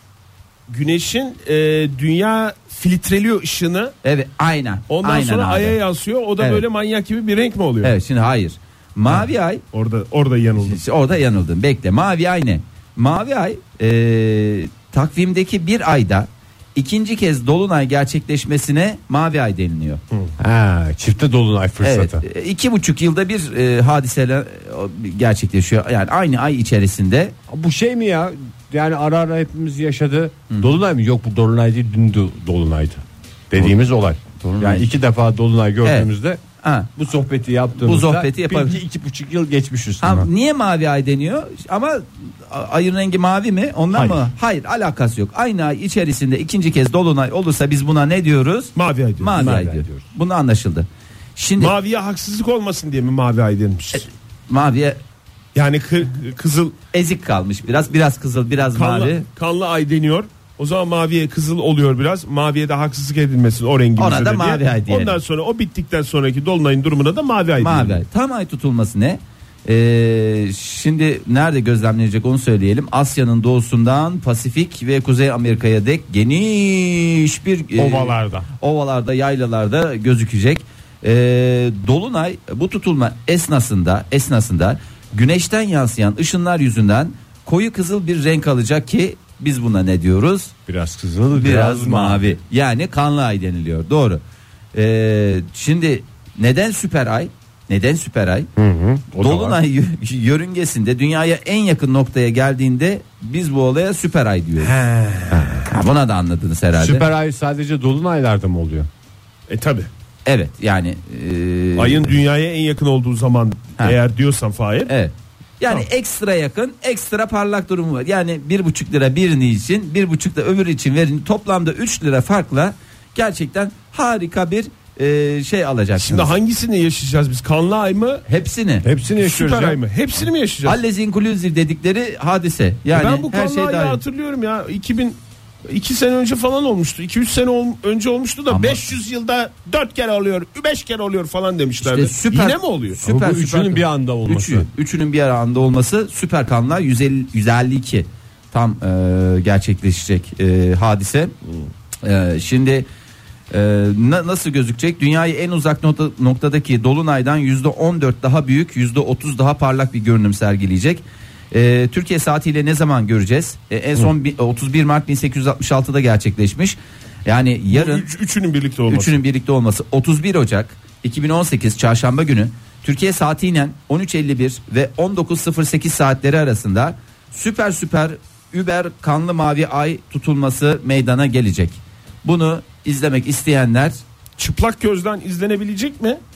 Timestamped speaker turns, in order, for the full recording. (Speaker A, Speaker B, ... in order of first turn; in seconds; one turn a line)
Speaker A: 0.7-3.9
Speaker B: 4.0-5.8
Speaker A: 4.9-7.9
Speaker B: 6.4-6.6
Speaker B: 7.8-9.6
Speaker A: 9.1-10.8
Speaker B: 10.6-20.0
Speaker C: 20.4-22.2
Speaker B: 21.8-27.3
Speaker C: 27.5-36.4
Speaker B: 34.5-34.9
Speaker B: 36.6-36.9
Speaker C: 37.0-40.3
Speaker B: 37.8-38.8
Speaker B: 40.0-51.7
Speaker C: 43.9-44.3
Speaker A: 48.8-49.4
Speaker C: 49.4-50.0
Speaker A: 51.6-54.1
Speaker B: 54.5-55.0
Speaker A: 55.5-56.8
Speaker B: 56.9-59.2
Speaker A: 58.7-68.0
Speaker B: 64.0-65.2
Speaker B: 67.6-90.5
Speaker C: 77.8-78.5
Speaker C: 90.7-92.4
Speaker B: 91.3-94.2
Speaker B: 94.7-98.5
Speaker C: 98.6-99.6
Speaker B: 99.2-104.8
Speaker C: 104.8-105.7
Speaker B: 105.6-107.1
Speaker C: 106.7-108.9
Speaker A: 109.5-109.9
Speaker B: 110.3-112.1
Speaker A: 111.8-114.9
Speaker B: 114.9-126.3
Speaker A: 126.0-128.2
Speaker B: 128.3-128.8
Speaker C: 128.8-129.8
Speaker A: 129.2-130.8
Speaker B: 130.7-134.0
Speaker A: 132.9-135.2
Speaker A: 135.7-143.0
Speaker B: 138.5-138.9
Speaker B: 141.8-151.3
Speaker C: 143.0-144.7
Speaker B: 152.0-152.9
Speaker B: 153.5-168.1
Speaker A: 167.7-169.2
Speaker B: 168.9-184.0
Speaker A: 184.4-186.2